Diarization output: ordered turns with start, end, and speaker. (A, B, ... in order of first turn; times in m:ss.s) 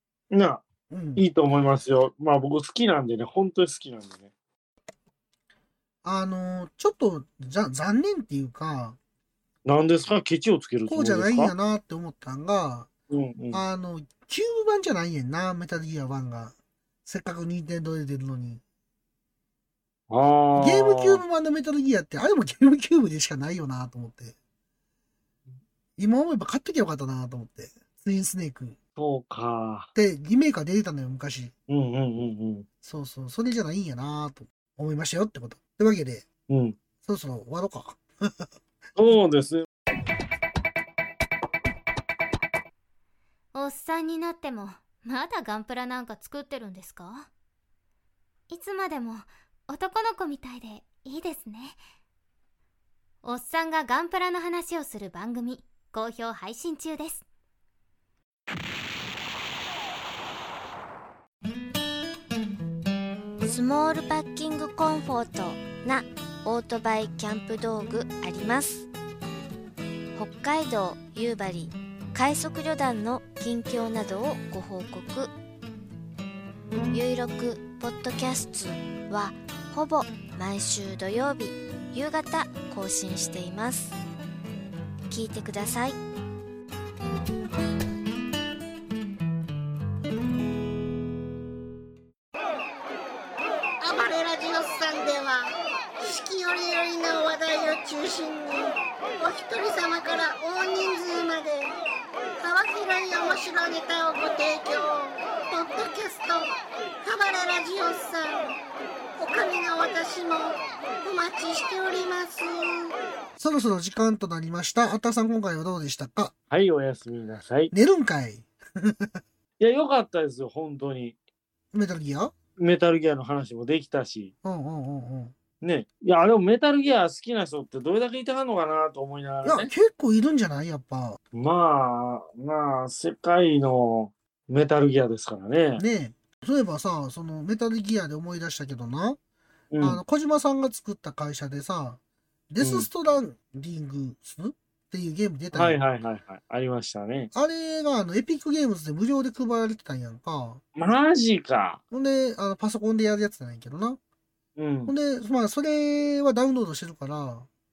0:00.3-0:00.6 A
0:00.9-0:01.2 B
0:01.2-0:04.3 A
0:06.0-0:09.0 B
0:09.7-0:11.5 A
0:10.9-0:12.9 B
0:13.1-0:13.6 A
0:13.5-0:18.6 B
0:20.1-0:21.2 A
0:20.5-0:24.4 B
0:26.0-0:28.8 B
0:29.0-0:29.9 A
0:30.0-0:31.5 B
0:31.7-0:32.7 A
0:32.8-0:36.2 B
0:36.5-0:36.8 A
0:37.0-0:38.5 B
0:39.0-0:39.7 A
0:43.5-0:47.3 C
0:48.5-0:51.8 C
0:53.2-0:57.2 C
1:03.4-1:08.9 D
1:10.2-1:15.3 D
1:16.9-1:24.0 D
1:25.1-1:26.0 D
1:33.8-1:41.8 E
1:42.4-1:48.6 E
1:49.2-1:52.9 E
1:53.4-1:56.3 B
1:56.5-1:57.7 A
1:57.7-1:59.2 B
1:59.6-2:01.2 A
2:01.7-2:02.3 B
2:02.6-2:04.3 A
2:04.4-2:05.3 B
2:05.6-2:09.7 A
2:09.4-2:11.2 B
2:11.3-2:15.8 A
2:15.8-2:19.2 B
2:19.7-2:20.0 A
2:19.8-2:22.0 B
2:22.5-2:25.8 B
2:22.6-2:22.9 A
2:25.5-2:27.3 A
2:27.3-2:30.6 B
2:30.8-2:31.8 A
2:31.9-2:34.0 B
2:34.6-2:34.9 A
2:34.9-2:37.5 B